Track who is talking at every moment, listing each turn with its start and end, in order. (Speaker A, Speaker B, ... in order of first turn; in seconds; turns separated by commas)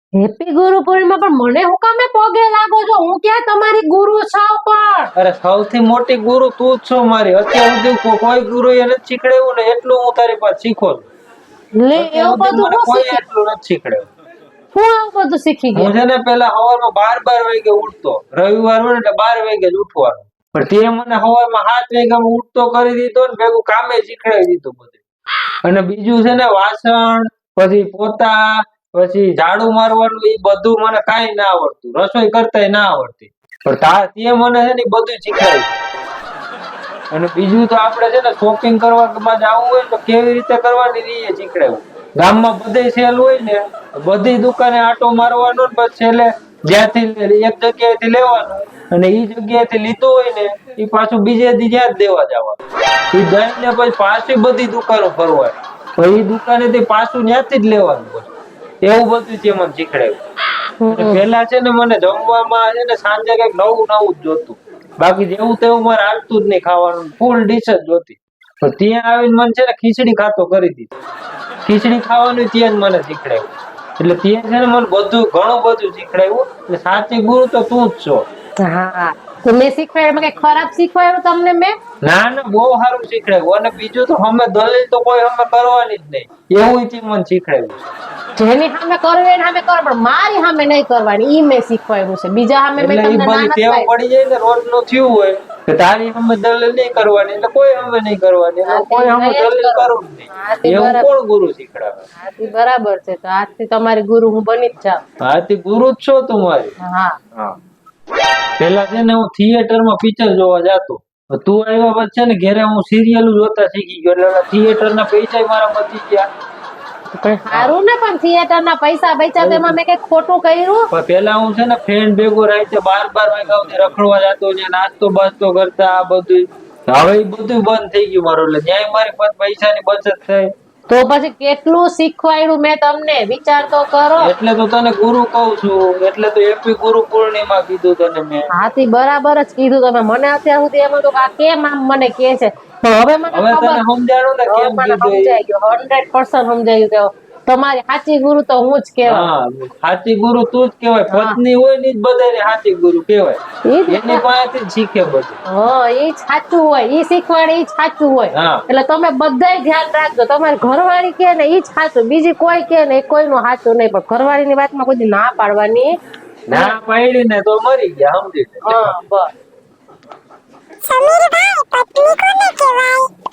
Speaker A: 0.2-5.1, Speaker B: 5.2-11.1, Speaker A: 11.8-13.2, Speaker B: 11.9-14.1, Speaker A: 14.7-15.9, Speaker B: 15.7-25.0, Speaker B: 25.6-35.7, Speaker B: 37.1-52.6, Speaker B: 53.1-58.3, Speaker B: 58.8-60.2, Speaker A: 60.8-61.2, Speaker B: 60.9-70.9, Speaker B: 71.7-73.5, Speaker B: 74.0-78.2, Speaker A: 78.6-81.7, Speaker B: 82.0-87.9, Speaker A: 88.3-93.9, Speaker B: 92.8-102.0, Speaker A: 98.7-101.1, Speaker A: 102.2-105.0, Speaker B: 105.2-106.7, Speaker A: 106.8-107.2, Speaker B: 108.6-116.3, Speaker A: 117.1-120.9, Speaker B: 119.4-119.8, Speaker B: 120.9-130.5, Speaker A: 130.9-134.3, Speaker B: 134.2-138.5, Speaker A: 138.5-143.8, Speaker B: 143.3-145.3, Speaker A: 144.5-149.3, Speaker B: 149.1-155.4, Speaker A: 151.1-151.4, Speaker A: 153.7-154.2, Speaker A: 155.5-165.9, Speaker B: 158.3-158.6, Speaker B: 166.5-168.9, Speaker A: 166.5-166.8, Speaker A: 168.6-169.3, Speaker A: 170.9-173.1